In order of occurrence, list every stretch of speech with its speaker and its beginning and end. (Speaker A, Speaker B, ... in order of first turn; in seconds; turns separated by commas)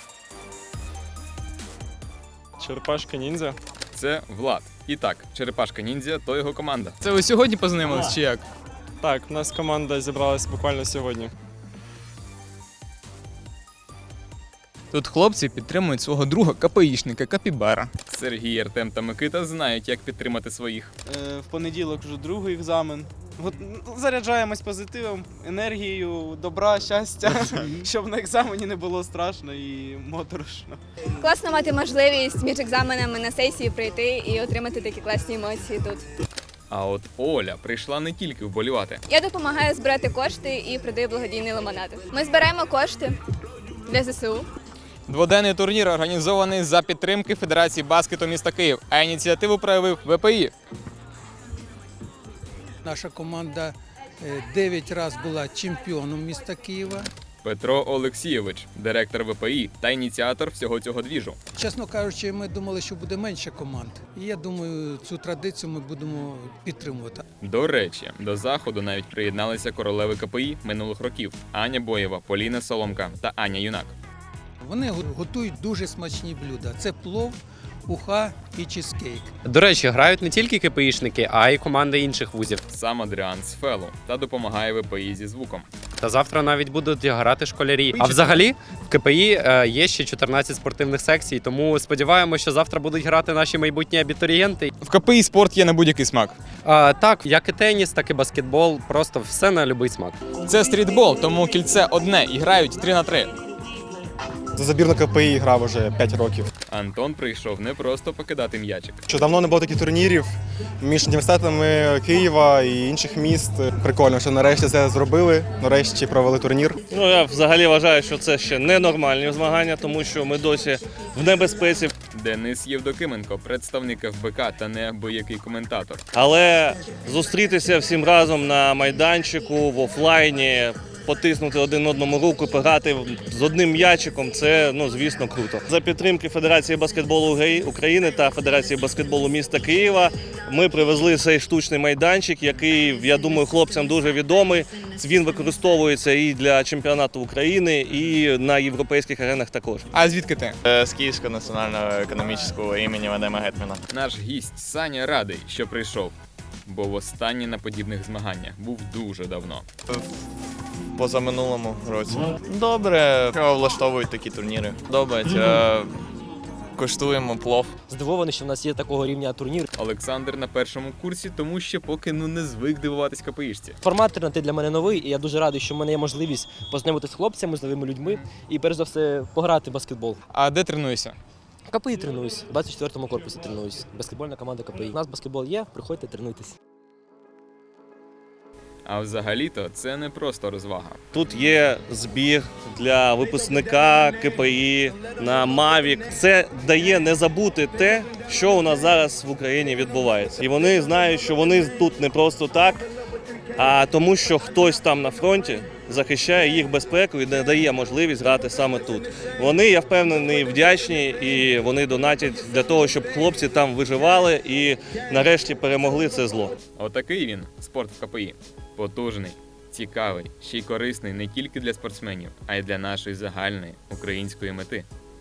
Speaker A: 2.6-3.6, Speaker B: 3.9-8.4, Speaker A: 9.0-11.3, Speaker B: 14.9-20.9, Speaker C: 21.1-30.8, Speaker D: 31.2-36.0, Speaker B: 36.7-39.0, Speaker D: 39.1-43.1, Speaker D: 43.9-44.5, Speaker B: 45.1-50.5, Speaker E: 52.8-57.1, Speaker B: 57.4-61.4, Speaker E: 61.6-67.2, Speaker B: 67.4-73.9, Speaker E: 74.6-79.3, Speaker F: 79.5-82.6, Speaker B: 82.7-85.7, Speaker F: 86.0-94.7, Speaker B: 88.0-88.4, Speaker B: 94.8-96.4, Speaker F: 96.7-100.2, Speaker B: 100.5-103.3, Speaker G: 104.6-106.5, Speaker B: 106.7-109.0, Speaker G: 109.1-116.8, Speaker H: 116.9-121.9, Speaker B: 122.1-126.0, Speaker H: 126.1-149.8, Speaker B: 149.9-150.6, Speaker I: 150.7-153.8, Speaker B: 153.9-156.1, Speaker B: 156.7-159.6, Speaker I: 160.9-166.0, Speaker I: 166.8-167.7, Speaker J: 167.9-169.7, Speaker B: 169.8-173.8, Speaker J: 173.8-180.2, Speaker B: 180.3-181.2, Speaker J: 181.7-186.6, Speaker B: 188.9-191.0, Speaker H: 191.1-202.9, Speaker H: 203.6-216.6, Speaker B: 216.8-224.8